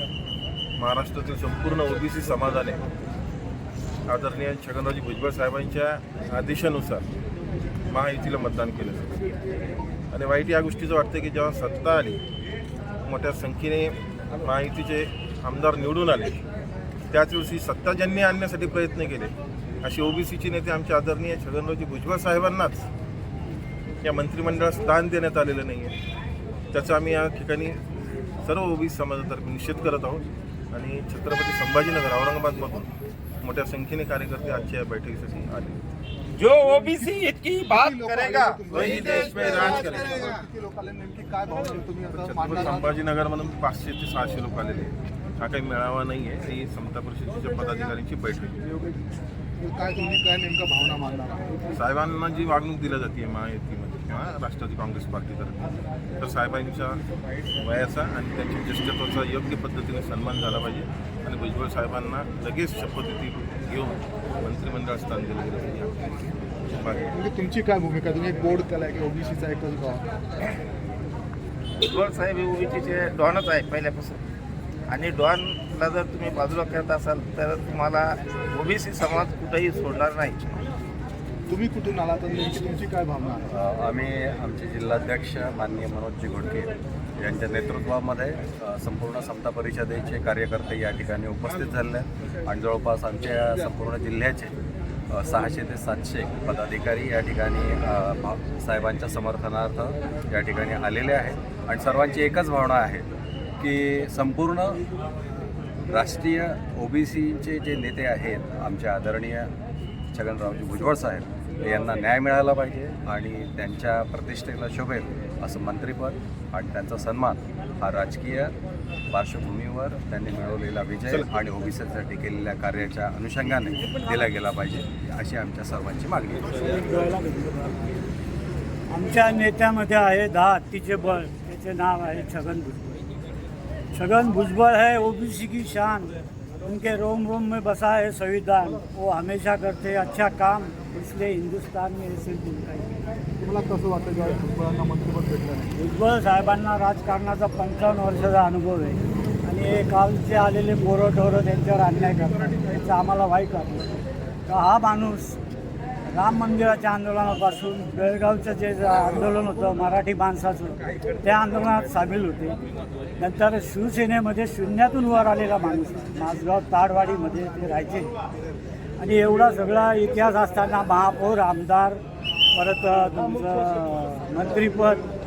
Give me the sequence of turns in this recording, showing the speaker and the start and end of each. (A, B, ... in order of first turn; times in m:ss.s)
0:00.8-0:02.8 A
0:04.1-0:07.0 A
0:07.9-0:09.3 A
0:10.1-0:12.2 A
0:13.0-0:16.4 A
0:17.1-0:22.9 A
0:24.0-0:25.9 A
0:26.7-0:27.8 A
0:28.4-0:32.9 A
0:33.4-0:35.8 A
0:36.4-0:39.4 B
0:36.7-0:43.0 C
0:38.6-0:40.4 A
0:42.1-0:48.6 A
0:48.6-0:49.0 C
0:49.6-0:51.7 C
0:51.7-0:55.6 A
0:56.2-0:57.0 A
0:57.5-1:06.0 A
1:06.8-1:07.2 A
1:07.1-1:10.1 C
1:11.8-1:14.2 B
1:14.9-1:20.5 B
1:21.5-1:23.5 C
1:23.5-1:34.6 D
1:35.1-1:43.1 D
1:43.6-1:44.8 D
1:45.8-1:49.5 D
1:50.1-1:58.5 D
1:59.1-2:06.6 D
2:01.1-2:01.4 A
2:06.6-2:07.9 E
2:08.9-2:13.0 E
2:13.9-2:22.9 E
2:23.4-2:25.7 C
2:25.8-2:35.4 E
2:36.0-2:42.6 E
2:43.2-2:48.2 E
2:49.0-2:55.1 E